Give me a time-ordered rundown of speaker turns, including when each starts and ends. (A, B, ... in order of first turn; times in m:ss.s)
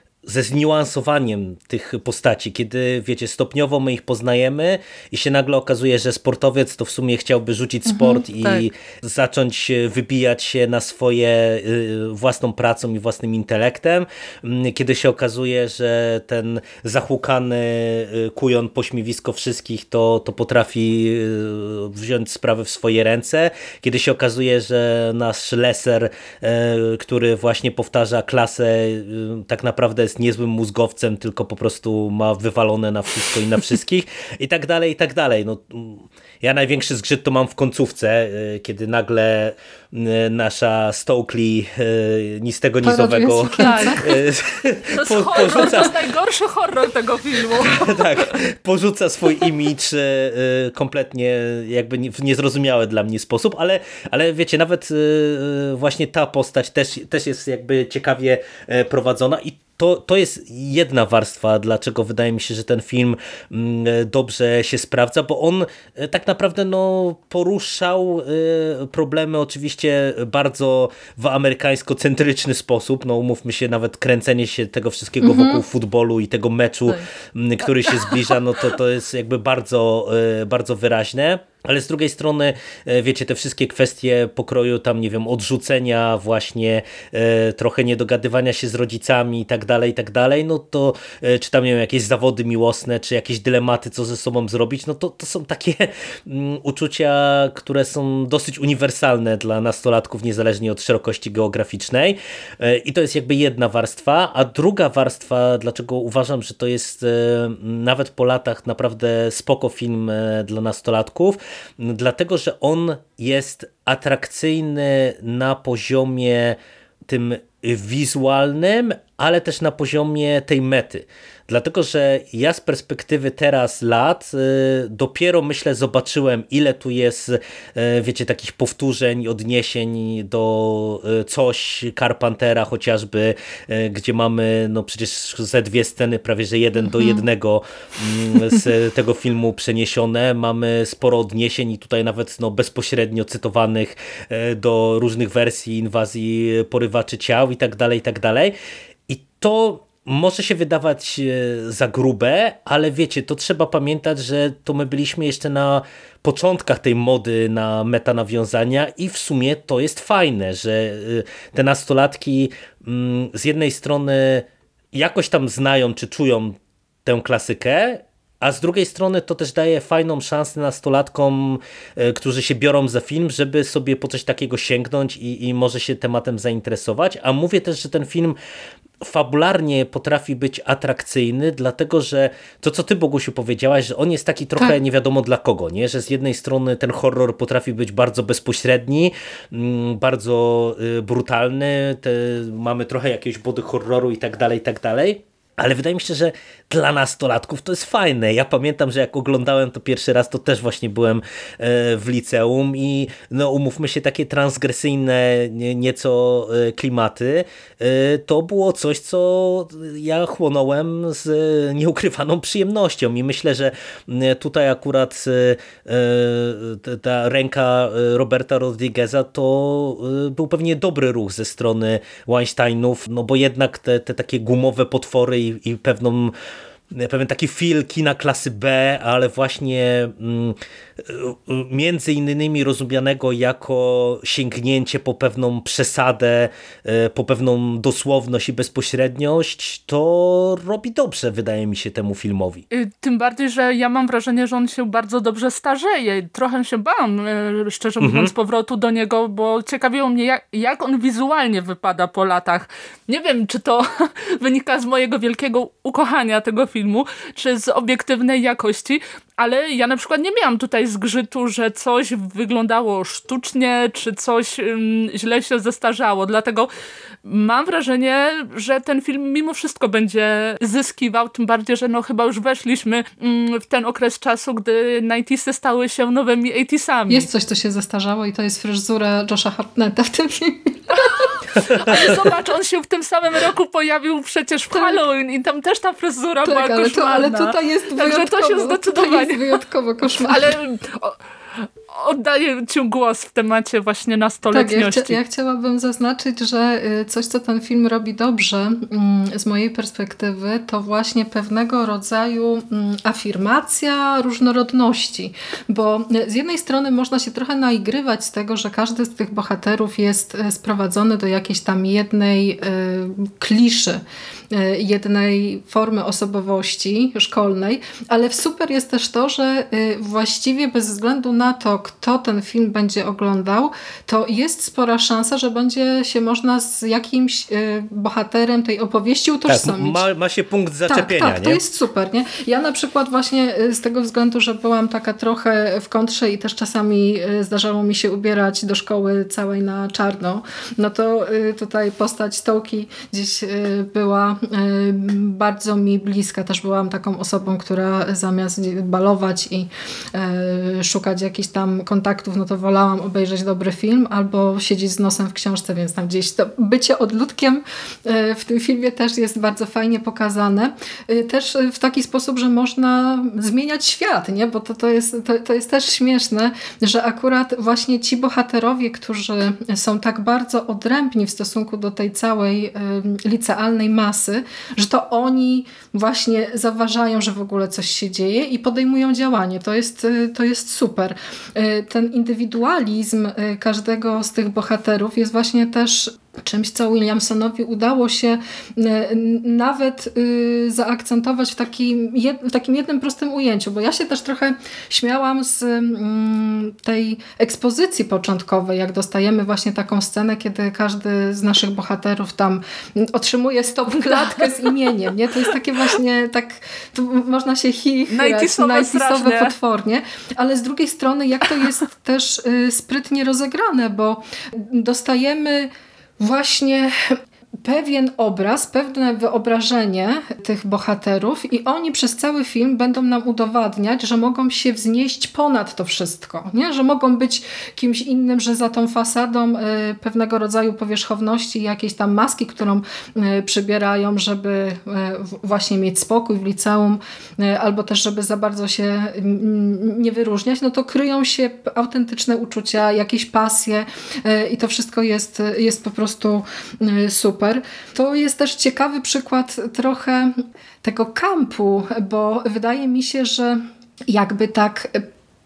0:00.2-0:45.9 A
0:07.9-0:08.2 B
0:42.8-0:44.0 B
0:43.6-0:44.2 C
0:45.0-0:48.0 C
0:47.6-2:28.6 A
1:15.2-1:15.6 B
2:29.1-2:58.4 A
2:59.0-3:46.3 A
3:46.9-4:02.6 A
4:02.7-4:26.7 C
4:08.0-4:08.3 A
4:27.2-4:37.3 C
4:37.1-4:41.3 B
4:40.9-4:49.6 C
4:41.8-4:42.3 B
4:44.7-4:45.0 B
4:46.4-4:50.5 B
4:50.2-4:51.2 C
4:51.9-4:55.2 C
4:54.5-5:30.0 B
5:29.5-5:31.6 A
5:30.9-7:35.1 B
6:44.1-6:44.7 C
6:48.1-6:49.5 C